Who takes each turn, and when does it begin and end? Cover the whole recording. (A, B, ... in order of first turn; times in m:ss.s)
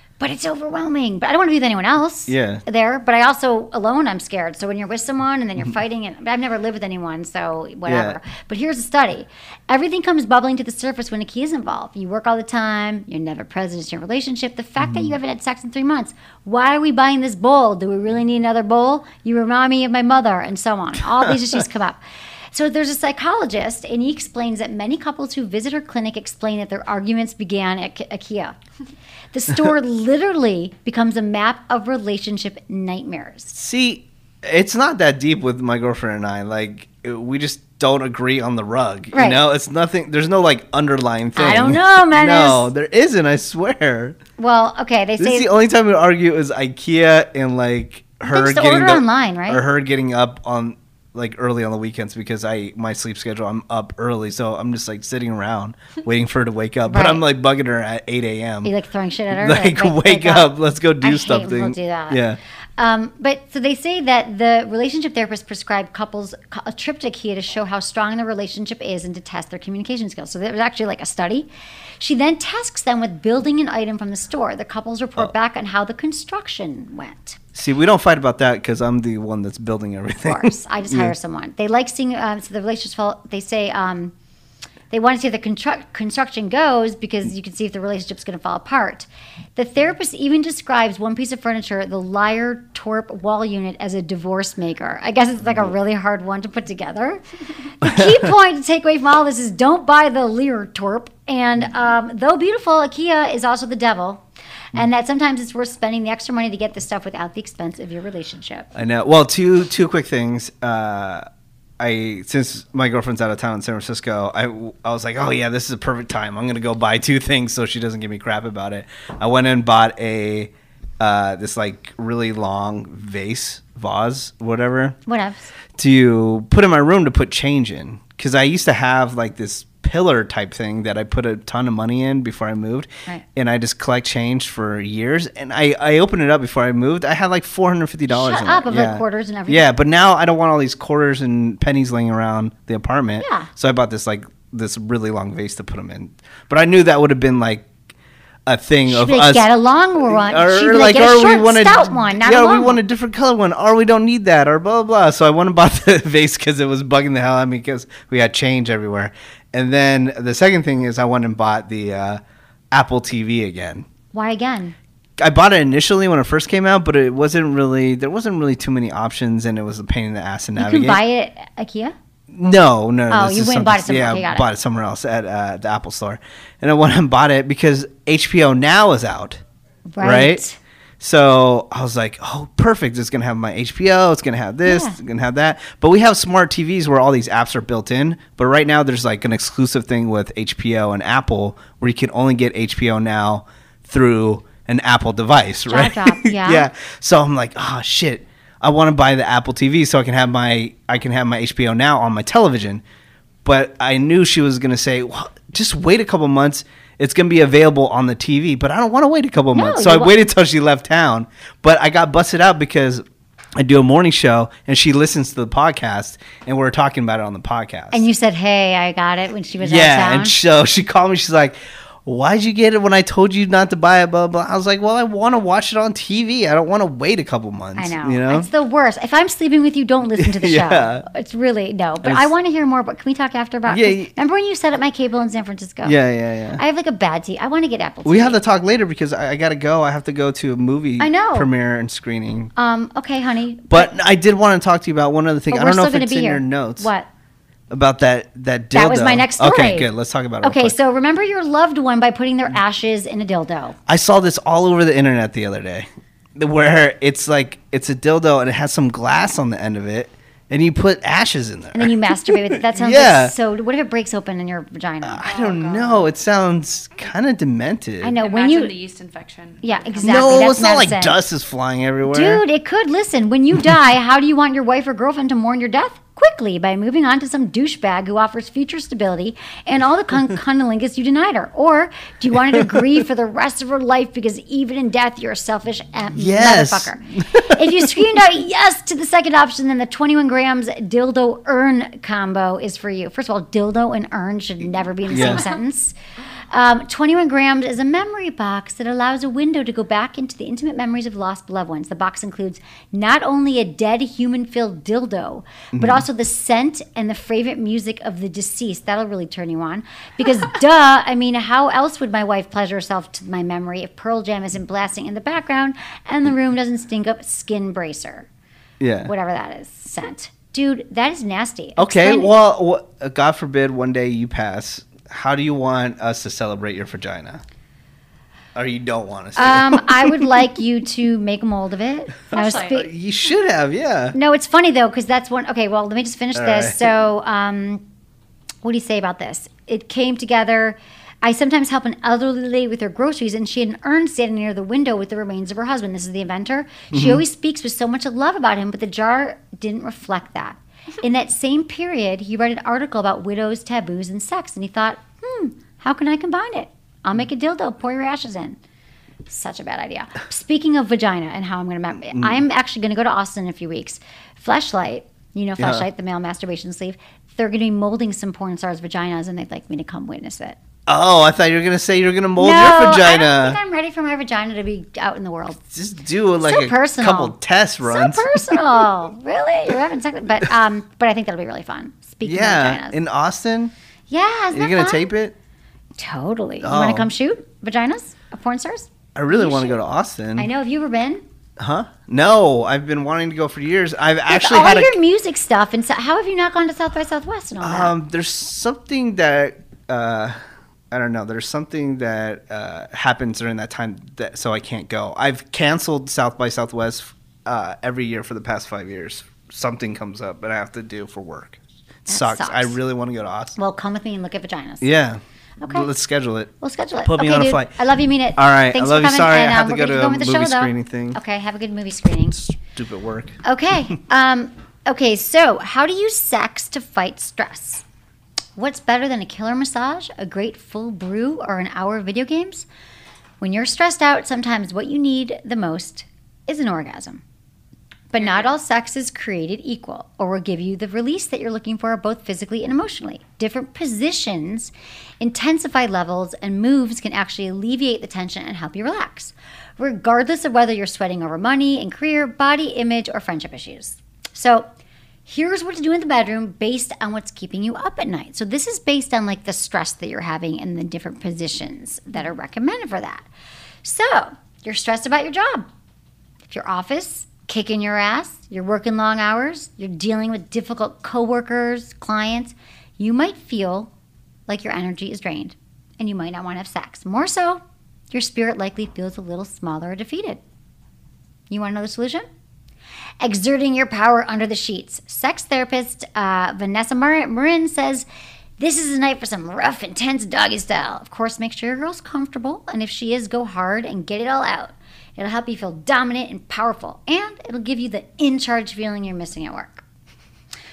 0:00.2-0:28.6 A
0:02.3-0:02.6 B
0:07.8-0:08.2 B
0:14.8-0:15.1 B
0:21.1-0:21.6 B
0:29.3-0:33.6 A
0:33.5-0:44.2 B
0:39.1-0:39.4 A
0:41.4-0:42.7 A
0:44.4-0:45.5 A
0:45.2-0:58.7 B
0:48.3-0:49.6 A
0:56.9-0:57.2 A
0:58.6-1:02.2 A
0:59.3-1:02.4 B
1:02.8-1:11.5 A
1:12.0-1:17.4 A
1:17.5-1:21.1 B
1:20.3-1:24.1 A
1:24.9-1:48.7 A
1:37.8-1:38.1 B
1:48.7-1:51.3 B
1:51.8-2:05.0 B
2:05.0-2:05.5 A
2:05.8-2:27.7 B
2:18.1-2:19.6 A
2:23.2-2:23.5 A
2:28.4-2:29.5 B
2:28.9-2:32.8 A
2:30.1-2:42.2 B
2:42.7-2:43.9 B
2:44.1-2:44.8 A
2:45.2-2:51.0 B
2:50.6-2:51.9 A
2:52.3-2:59.4 B
2:53.1-2:54.4 A
2:59.9-3:00.6 A
3:00.0-3:00.4 B
3:01.0-3:22.8 B
3:04.6-3:05.0 A
3:15.7-3:16.7 A
3:23.4-3:33.0 B
3:29.5-3:30.1 A
3:33.6-3:38.0 B
3:37.9-3:40.3 A
3:39.6-3:48.5 B
3:47.8-3:56.0 A
3:50.2-3:51.0 B
3:52.0-3:52.3 B
3:53.7-3:54.1 B
3:55.8-3:56.6 B
3:56.6-3:58.4 A
3:58.0-4:02.5 B
4:01.0-4:01.5 A
4:02.6-4:03.9 A
4:03.7-4:06.9 B
4:05.5-4:07.1 A
4:07.7-4:10.8 B
4:08.7-4:09.9 A
4:10.4-4:13.8 A
4:13.9-4:23.3 B
4:21.7-4:25.3 A
4:25.0-4:28.1 B
4:25.2-4:26.0 C
4:28.0-4:28.7 A
4:28.2-4:30.3 C
4:29.6-4:31.2 A
4:30.0-4:32.4 B
4:32.1-4:56.0 A
4:46.2-4:48.0 B
4:55.1-4:55.4 B
4:55.2-4:55.5 C
4:56.5-5:18.3 A
5:05.7-5:06.0 B
5:18.8-5:19.1 B
5:19.0-5:22.3 A
5:21.8-5:27.4 B
5:28.5-5:30.4 B
5:29.4-5:32.9 A
5:32.3-5:34.1 B
5:32.4-5:32.6 C
5:34.1-5:37.8 A
5:36.3-5:36.8 B
5:38.6-5:58.6 A
5:46.9-5:47.2 B
5:59.3-6:10.6 A
6:02.2-6:02.4 B
6:05.6-6:05.8 B
6:10.9-6:13.6 B
6:12.4-6:15.6 A
6:15.7-6:18.6 B
6:16.4-6:23.0 A
6:22.2-6:23.7 B
6:24.1-6:25.1 A
6:24.5-6:25.3 B
6:26.0-6:29.7 A
6:26.6-6:27.1 B
6:29.2-6:30.5 B
6:30.4-6:31.2 A
6:31.6-6:35.0 B
6:34.3-6:37.9 A
6:37.6-6:40.4 B
6:40.9-6:53.6 B
6:52.1-6:52.8 A
6:53.6-6:54.9 A
6:54.8-6:56.5 B
6:55.6-6:55.9 A
6:56.6-7:02.4 A
6:57.0-6:57.8 B
6:58.4-7:01.2 B
7:02.3-7:03.4 B
7:03.4-7:07.8 A
7:08.6-7:12.6 A
7:13.4-7:17.2 A
7:18.1-7:34.7 A
7:18.2-7:18.5 C
7:35.3-7:43.2 A
7:43.8-7:45.7 A
7:46.5-7:53.9 A
7:54.5-8:00.4 A
8:01.5-8:02.2 A
8:03.2-8:08.1 A
8:08.6-8:19.8 A